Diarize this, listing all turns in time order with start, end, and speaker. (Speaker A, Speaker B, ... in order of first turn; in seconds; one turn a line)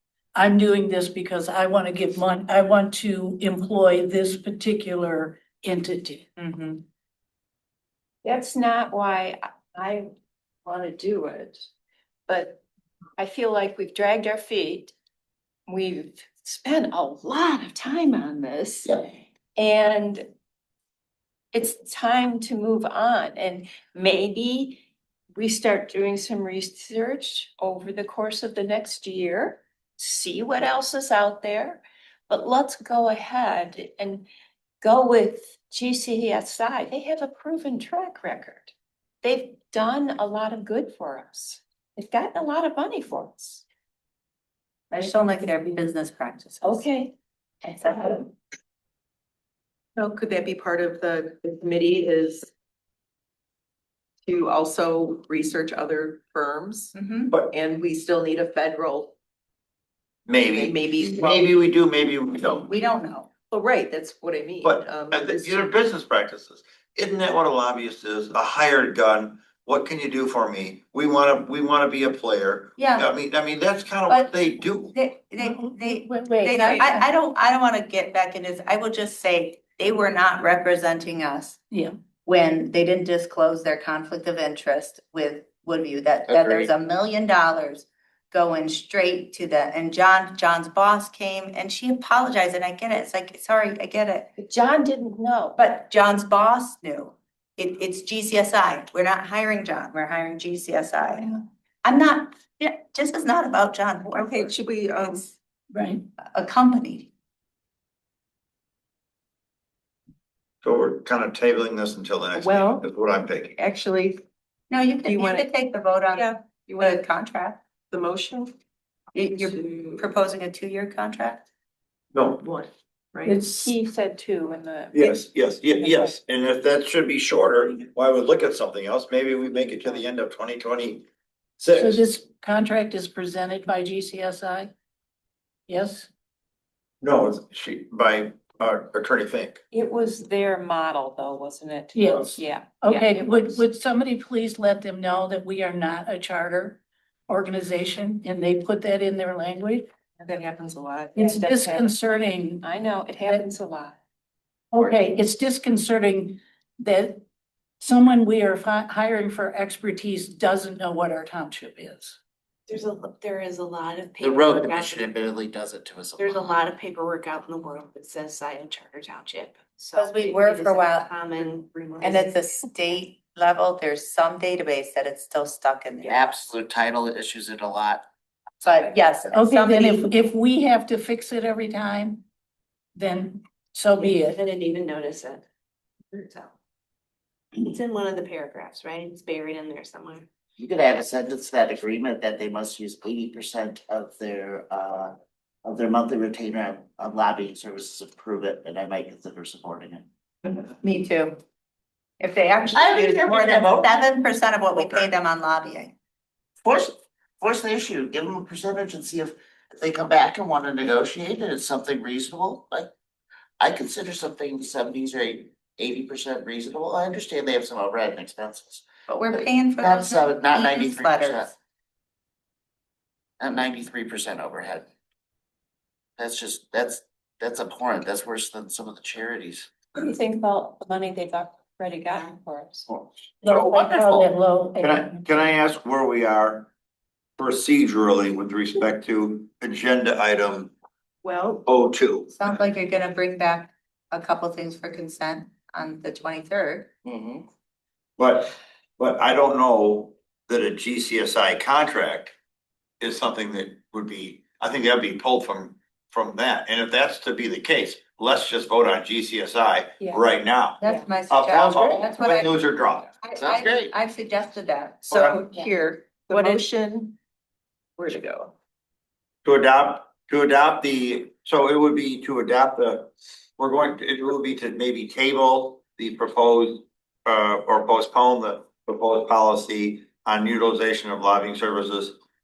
Speaker A: 0.3-6.3
Speaker B: 6.4-6.8
Speaker C: 8.2-10.1
Speaker C: 10.6-11.7
Speaker C: 12.3-12.6
Speaker C: 13.2-14.9
Speaker C: 15.7-19.0
Speaker C: 19.6-20.3
Speaker C: 21.5-24.8
Speaker C: 25.3-34.3
Speaker C: 34.8-43.6
Speaker B: 44.9-46.8
Speaker C: 46.6-47.1
Speaker B: 47.6-48.3
Speaker D: 50.0-52.5
Speaker D: 54.2-59.1
Speaker B: 56.9-57.3
Speaker E: 60.3-62.7
Speaker D: 60.5-61.4
Speaker B: 62.6-63.3
Speaker D: 63.5-65.7
Speaker E: 64.6-74.9
Speaker B: 72.8-73.1
Speaker B: 74.1-74.4
Speaker B: 74.9-81.6
Speaker A: 75.4-77.1
Speaker B: 82.2-94.3
Speaker F: 86.3-86.7
Speaker C: 94.4-95.6
Speaker B: 95.5-104.5
Speaker D: 104.1-105.3
Speaker A: 105.7-106.0
Speaker B: 106.3-107.1
Speaker E: 110.6-113.5
Speaker D: 112.3-112.8
Speaker D: 113.5-114.2
Speaker B: 114.7-117.6
Speaker D: 115.0-115.5
Speaker D: 116.1-117.1
Speaker D: 117.9-118.5
Speaker B: 119.1-121.5
Speaker D: 119.2-120.1
Speaker E: 122.1-122.4
Speaker D: 122.4-123.4
Speaker A: 123.2-123.7
Speaker C: 123.5-125.2
Speaker E: 124.9-131.1
Speaker C: 125.8-126.2
Speaker E: 131.6-132.0
Speaker A: 131.7-134.7
Speaker A: 135.7-136.1
Speaker E: 137.0-139.6
Speaker C: 139.7-143.5
Speaker A: 141.9-149.9
Speaker D: 150.6-151.1
Speaker A: 151.1-152.7
Speaker C: 151.2-151.9
Speaker C: 152.6-154.0
Speaker A: 154.7-157.2
Speaker A: 157.8-162.2
Speaker C: 162.7-164.9
Speaker G: 162.7-165.1
Speaker F: 164.2-166.5
Speaker G: 166.2-172.3
Speaker C: 166.3-169.8
Speaker B: 169.9-171.1
Speaker C: 170.8-171.1
Speaker B: 172.0-176.2
Speaker F: 176.0-178.0
Speaker B: 178.6-180.1
Speaker A: 179.3-182.2
Speaker A: 182.9-184.4
Speaker G: 184.1-185.4
Speaker G: 186.1-186.5
Speaker G: 187.6-190.2
Speaker C: 188.8-189.6
Speaker F: 190.6-200.1
Speaker B: 200.4-201.4
Speaker B: 202.2-205.9
Speaker F: 202.7-203.9
Speaker F: 206.6-212.9
Speaker F: 213.6-221.5
Speaker B: 219.1-221.5
Speaker F: 223.4-224.8
Speaker F: 226.2-229.7
Speaker C: 229.9-232.9
Speaker A: 233.4-235.3
Speaker E: 233.5-234.3
Speaker E: 234.8-236.7
Speaker E: 237.4-240.7
Speaker E: 241.6-242.3
Speaker B: 242.3-246.9
Speaker F: 247.1-247.4
Speaker E: 248.2-252.3
Speaker E: 253.0-263.1
Speaker B: 260.8-262.6
Speaker B: 263.2-265.7
Speaker F: 263.4-263.9
Speaker D: 265.0-267.1
Speaker E: 265.1-265.4
Speaker B: 266.3-266.6
Speaker D: 268.0-268.5
Speaker E: 269.4-282.2